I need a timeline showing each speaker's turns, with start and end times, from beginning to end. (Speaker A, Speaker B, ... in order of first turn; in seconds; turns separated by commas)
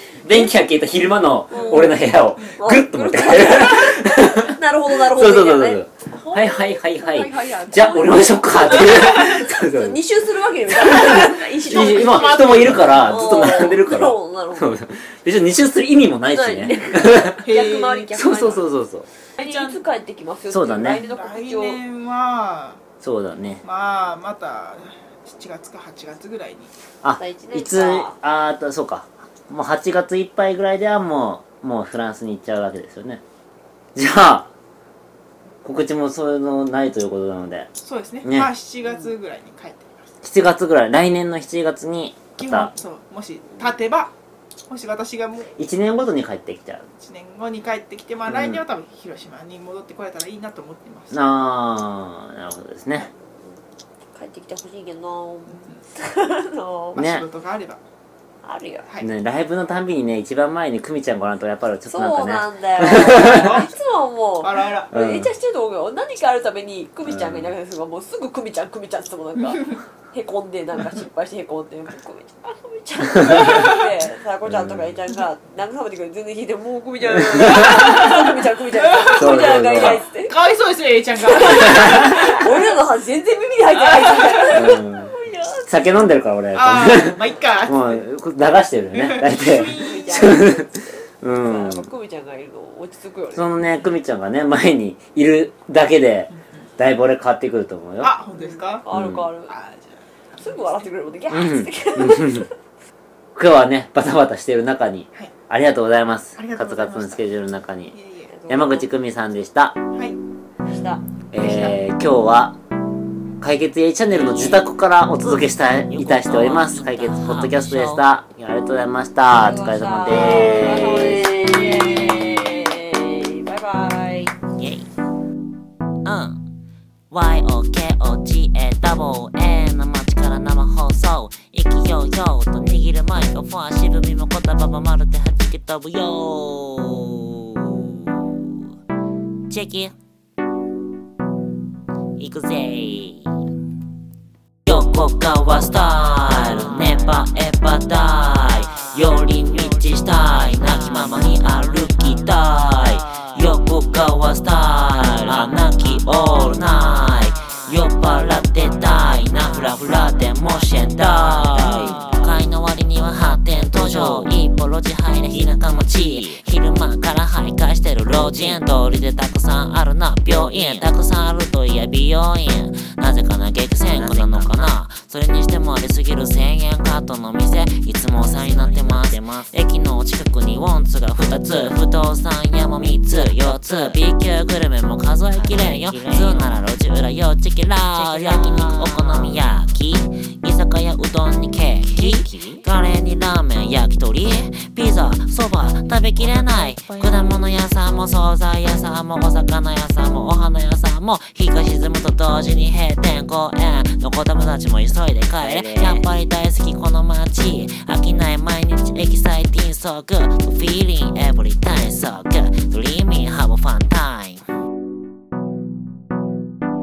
Speaker A: 0.2-10.0, Speaker B: 1.5-1.9, Speaker C: 1.6-1.9, Speaker B: 2.5-14.7, Speaker A: 10.7-17.6, Speaker C: 11.7-13.1, Speaker B: 16.3-18.7, Speaker C: 17.4-18.1, Speaker A: 18.1-19.1, Speaker C: 19.4-19.8, Speaker B: 19.4-21.8, Speaker A: 20.5-21.0, Speaker C: 20.9-22.8, Speaker A: 23.0-23.6, Speaker C: 23.6-26.7, Speaker A: 27.0-33.2, Speaker B: 27.2-28.1, Speaker A: 34.0-34.5, Speaker A: 35.6-37.7, Speaker C: 37.8-40.1, Speaker A: 38.2-38.5, Speaker A: 40.2-42.7, Speaker C: 42.4-44.1, Speaker C: 44.7-45.6, Speaker A: 45.6-46.9, Speaker C: 47.0-51.2, Speaker A: 48.3-48.6, Speaker A: 51.1-53.1, Speaker B: 54.1-57.0, Speaker C: 56.9-57.8, Speaker A: 57.0-57.2, Speaker B: 58.4-58.9, Speaker A: 59.0-63.5, Speaker B: 61.9-80.3, Speaker C: 62.9-63.7, Speaker C: 64.4-64.9, Speaker A: 64.9-65.3, Speaker A: 67.1-67.5, Speaker A: 73.3-73.6, Speaker A: 74.5-74.9, Speaker A: 77.3-78.1, Speaker C: 78.7-82.7, Speaker A: 79.1-80.0, Speaker B: 81.3-85.8, Speaker A: 81.7-82.2, Speaker C: 84.0-84.6, Speaker A: 84.5-85.1, Speaker A: 85.7-91.9, Speaker C: 86.5-88.0, Speaker C: 88.9-90.5, Speaker B: 89.5-93.6, Speaker A: 93.3-98.1, Speaker C: 98.0-98.9, Speaker B: 98.8-99.5, Speaker A: 98.9-99.3, Speaker C: 99.5-100.7, Speaker B: 100.4-102.5, Speaker A: 101.3-102.5, Speaker A: 103.4-108.0, Speaker C: 106.4-107.2, Speaker C: 107.9-108.3, Speaker B: 108.3-108.9, Speaker A: 108.5-109.8, Speaker B: 110.7-111.0, Speaker A: 111.3-112.6, Speaker C: 111.4-111.7, Speaker A: 113.4-121.2, Speaker D: 115.9-118.0, Speaker B: 119.4-124.3, Speaker D: 124.6-124.9, Speaker D: 126.0-126.4, Speaker D: 127.1-138.1, Speaker D: 139.5-139.9, Speaker D: 142.2-143.3, Speaker D: 144.7-214.4, Speaker A: 161.6-162.0, Speaker A: 168.2-168.6, Speaker A: 170.3-170.9, Speaker A: 173.9-174.7, Speaker A: 178.2-179.5, Speaker A: 185.3-186.6, Speaker A: 188.0-189.3, Speaker A: 191.9-192.6, Speaker A: 196.2-197.5, Speaker A: 205.4-206.1